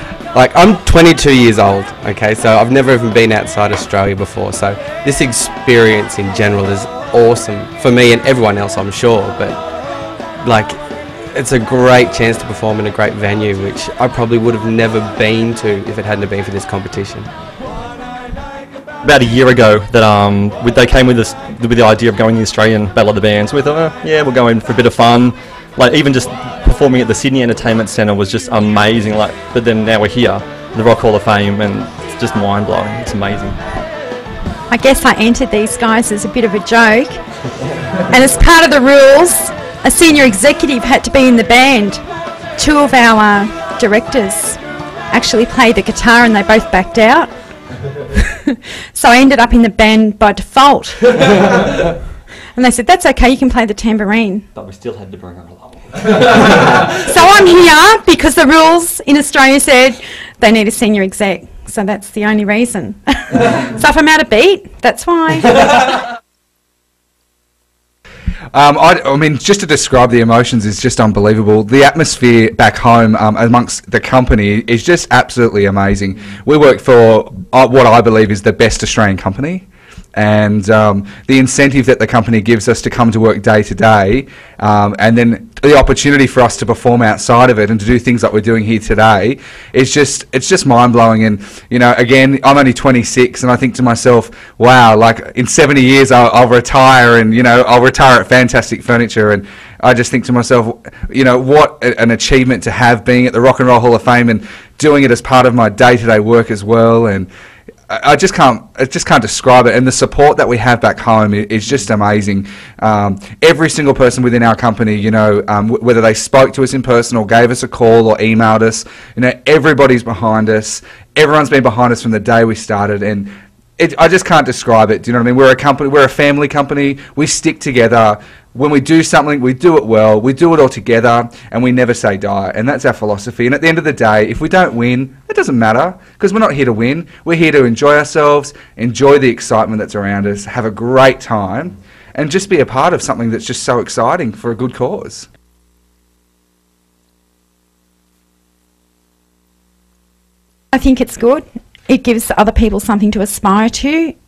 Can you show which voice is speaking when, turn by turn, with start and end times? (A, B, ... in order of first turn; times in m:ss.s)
0:00.3-0:09.6 A
0:10.4-0:10.8 A
0:11.3-0:17.3 A
0:19.0-0:33.6 B
0:34.7-0:37.2 C
0:38.1-0:42.0 C
0:42.6-0:44.6 C
0:45.1-0:47.3 C
0:48.1-0:51.6 C
0:52.5-0:54.5 C
0:54.5-0:56.1 B
0:56.5-1:06.0 C
1:08.5-1:47.3 D
1:47.9-2:25.3 D
2:30.7-2:34.1 C